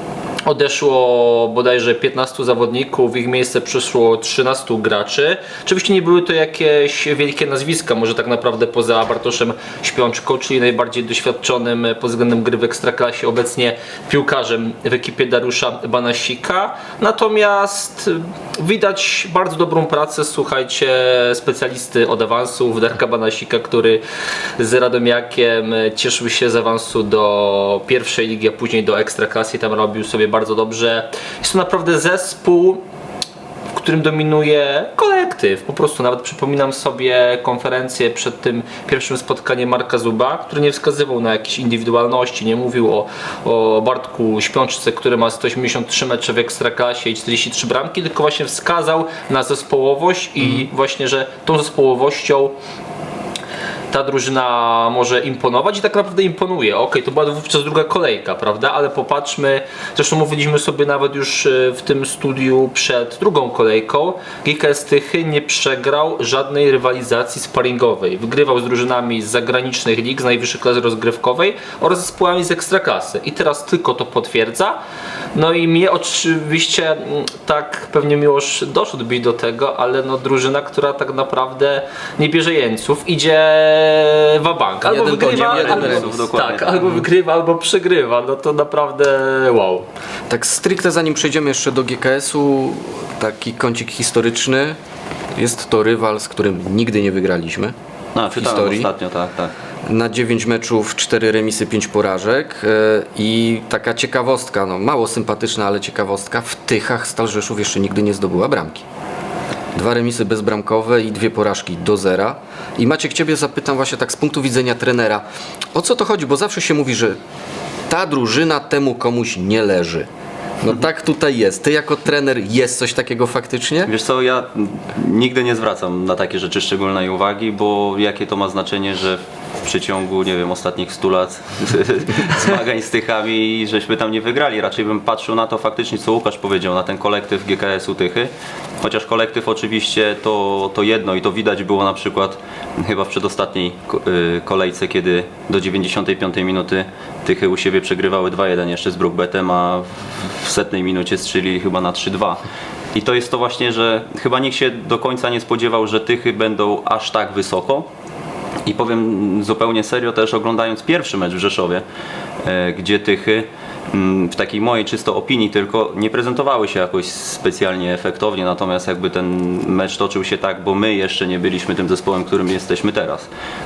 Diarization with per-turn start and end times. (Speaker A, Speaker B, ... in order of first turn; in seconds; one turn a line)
Speaker A: 0.5-24.0
Speaker A: 24.6-32.8
Speaker A: 33.7-52.6
Speaker A: 53.9-74.8
Speaker A: 75.3-89.9
Speaker B: 84.8-86.3
Speaker C: 85.0-87.0
Speaker B: 90.3-94.8
Speaker B: 95.4-97.7
Speaker C: 98.2-99.5
Speaker B: 98.3-98.9
Speaker B: 99.9-108.8
Speaker B: 109.8-117.2
Speaker B: 117.9-120.1
Speaker B: 120.6-123.9
Speaker C: 123.9-138.3
Speaker C: 138.8-157.9
Speaker C: 158.7-161.8
Speaker C: 162.4-173.3